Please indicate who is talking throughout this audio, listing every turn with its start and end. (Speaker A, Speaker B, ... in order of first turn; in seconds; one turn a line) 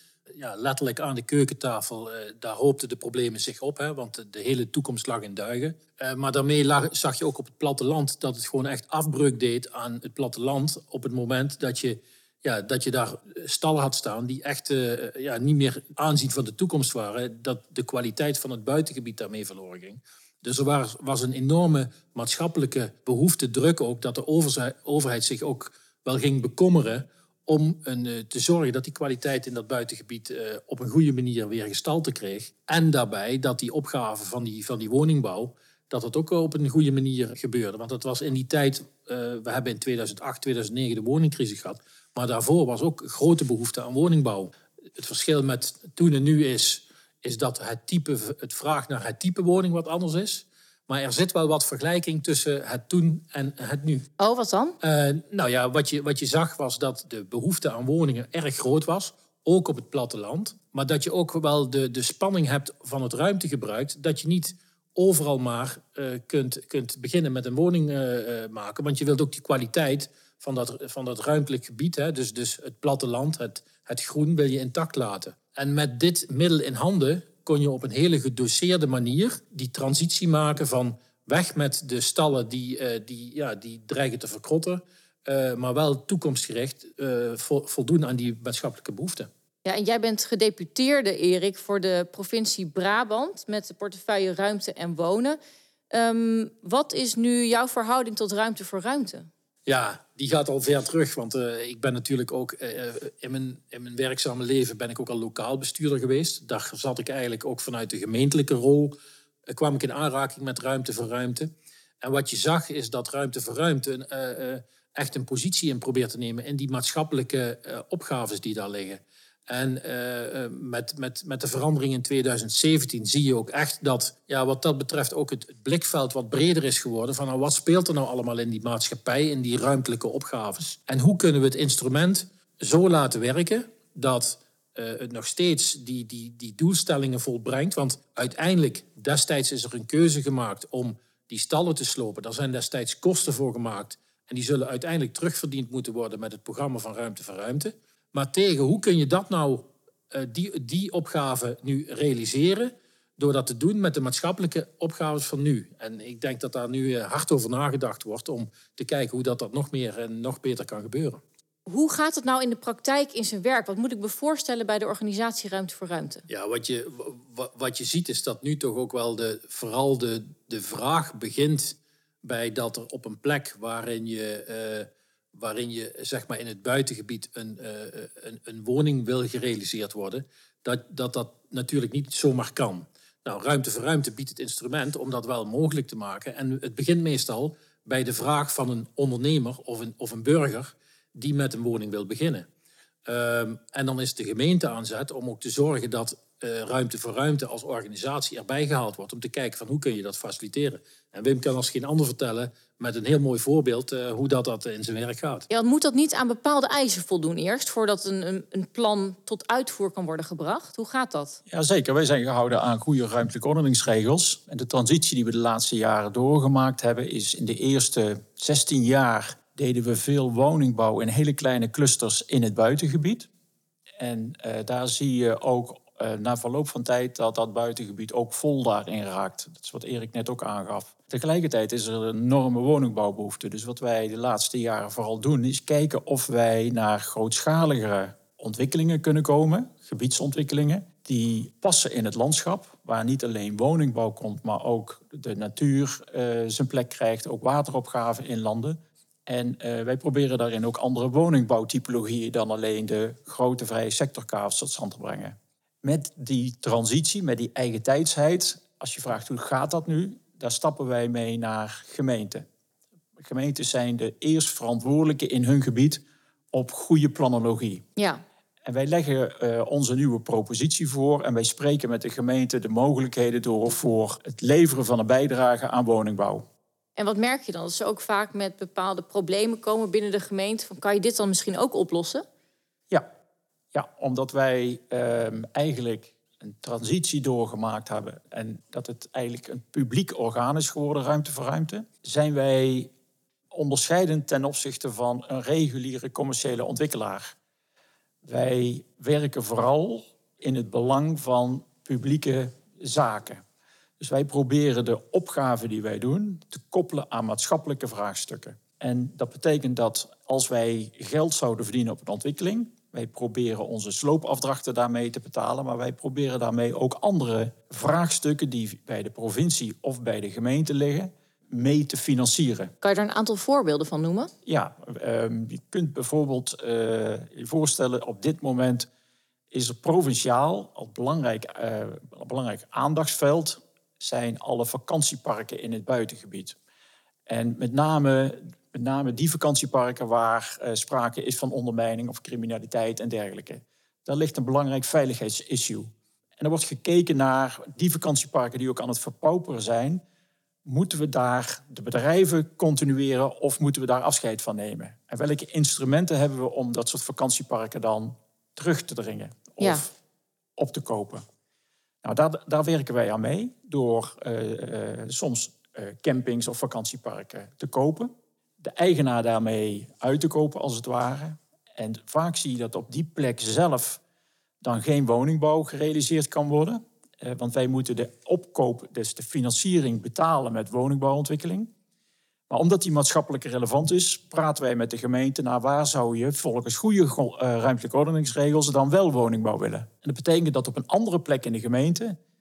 Speaker A: 0.3-54.1
Speaker B: 54.2-54.8
Speaker A: 54.8-89.3
Speaker B: 89.7-95.4
Speaker B: 95.9-99.3
Speaker A: 99.7-109.0
Speaker A: 109.5-111.5
Speaker A: 112.0-161.2
Speaker B: 161.7-166.2
Speaker A: 166.3-192.5
Speaker A: 193.1-205.5
Speaker B: 205.5-211.4
Speaker C: 211.5-223.3
Speaker C: 224.0-262.4
Speaker C: 263.2-267.9
Speaker B: 268.0-268.2
Speaker C: 268.6-276.5
Speaker B: 277.0-282.2
Speaker C: 283.7-292.9
Speaker C: 293.5-297.4
Speaker C: 298.2-303.4
Speaker C: 304.0-322.7
Speaker B: 322.8-324.3
Speaker C: 324.4-328.9
Speaker C: 329.5-336.6
Speaker C: 337.3-350.0
Speaker C: 350.6-359.9
Speaker B: 359.6-359.8
Speaker C: 360.6-361.2
Speaker C: 362.0-374.0
Speaker C: 374.6-381.7
Speaker C: 382.5-392.2